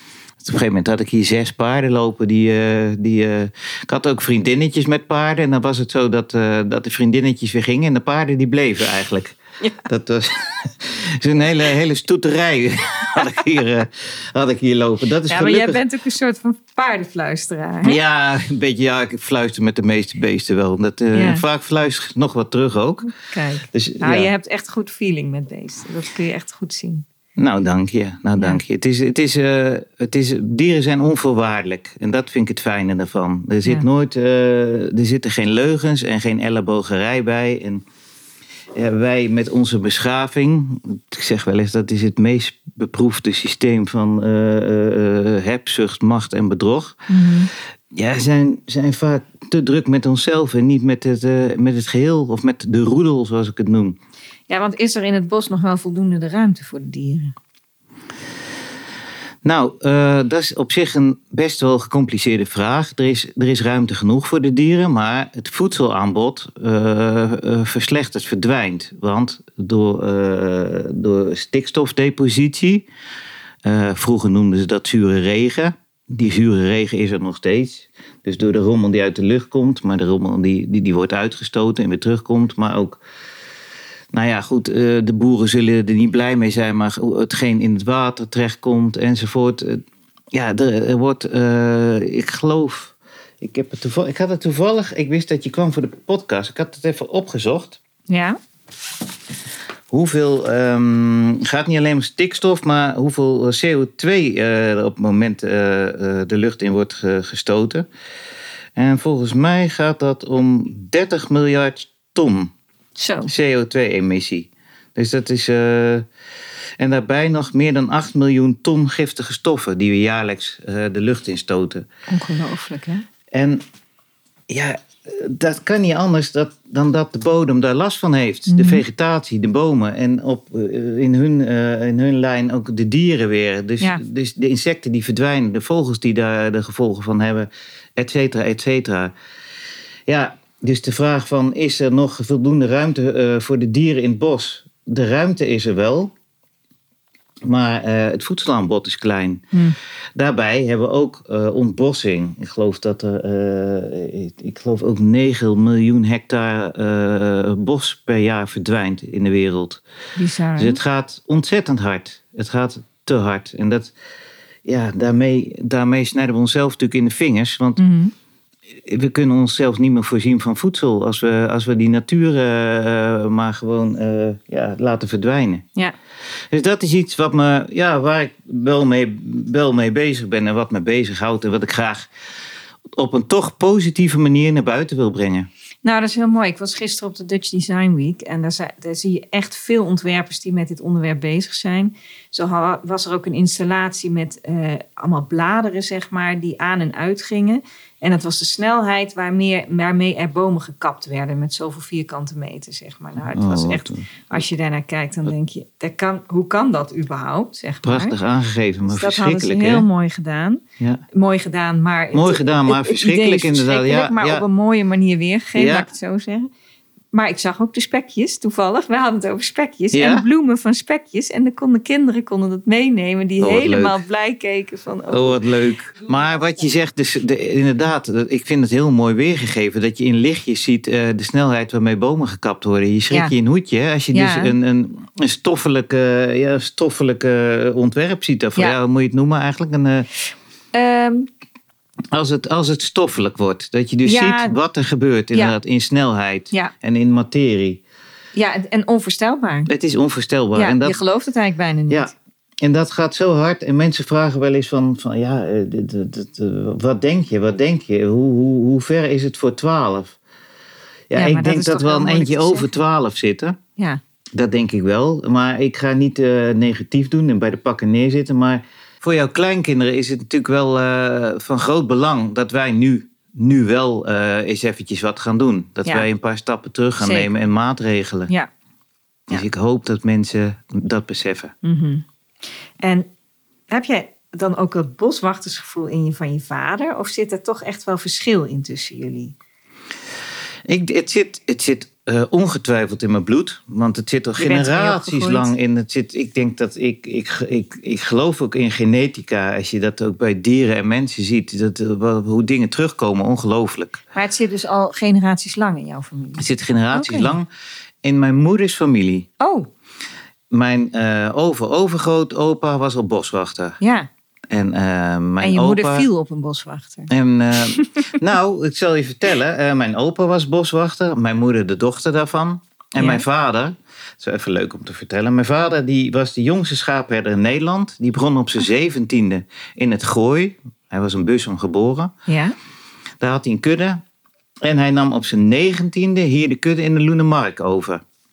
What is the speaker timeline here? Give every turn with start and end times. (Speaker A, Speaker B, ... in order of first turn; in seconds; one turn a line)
Speaker A: 0.4-15.8
Speaker B: 15.3-18.0
Speaker A: 17.8-23.1
Speaker B: 21.1-21.4
Speaker B: 23.1-27.1
Speaker A: 23.7-24.3
Speaker A: 27.4-37.8
Speaker A: 38.7-47.0
Speaker B: 47.1-47.5
Speaker A: 47.9-54.0
Speaker B: 54.5-57.3
Speaker A: 59.4-72.8
Speaker A: 73.6-83.0
Speaker A: 84.1-97.8
Speaker B: 98.1-98.4
Speaker A: 99.9-107.9
Speaker A: 108.8-112.5
Speaker B: 113.0-113.3
Speaker A: 113.3-116.0
Speaker A: 116.8-121.9
Speaker B: 122.1-123.0
Speaker A: 123.3-123.6
Speaker A: 124.5-139.1
Speaker B: 128.5-128.8
Speaker A: 140.1-146.1
Speaker A: 147.4-149.4
Speaker A: 150.2-159.8
Speaker B: 160.2-160.8
Speaker A: 160.6-163.9
Speaker A: 164.7-167.8
Speaker B: 167.8-168.1
Speaker A: 168.8-175.6
Speaker A: 176.5-182.1
Speaker A: 182.9-185.5
Speaker B: 185.8-208.2
Speaker A: 203.3-204.3
Speaker A: 207.8-209.8
Speaker B: 208.9-216.5
Speaker A: 212.1-214.4
Speaker A: 215.5-215.9
Speaker B: 217.1-225.4
Speaker A: 219.9-220.2
Speaker A: 223.4-224.0
Speaker A: 225.1-240.1
Speaker B: 234.1-234.5
Speaker B: 240.7-241.3
Speaker A: 242.1-247.8
Speaker B: 244.0-244.6
Speaker B: 248.3-249.7
Speaker A: 249.7-251.0
Speaker B: 250.5-252.1
Speaker A: 251.9-260.2
Speaker A: 261.1-263.6
Speaker B: 261.2-262.7
Speaker A: 264.3-278.3
Speaker B: 277.0-277.3
Speaker A: 279.3-281.5
Speaker B: 281.6-282.0
Speaker B: 282.8-283.1
Speaker B: 283.7-289.3
Speaker A: 290.7-304.0
Speaker B: 294.4-295.5
Speaker B: 304.1-307.3
Speaker A: 306.4-307.5
Speaker A: 308.0-309.3
Speaker B: 309.4-309.7
Speaker A: 310.5-313.8
Speaker B: 313.8-314.1
Speaker A: 314.5-316.1
Speaker B: 315.4-317.1
Speaker A: 317.1-332.1
Speaker B: 323.0-323.2
Speaker B: 332.3-332.5
Speaker A: 333.2-334.0
Speaker A: 334.6-338.0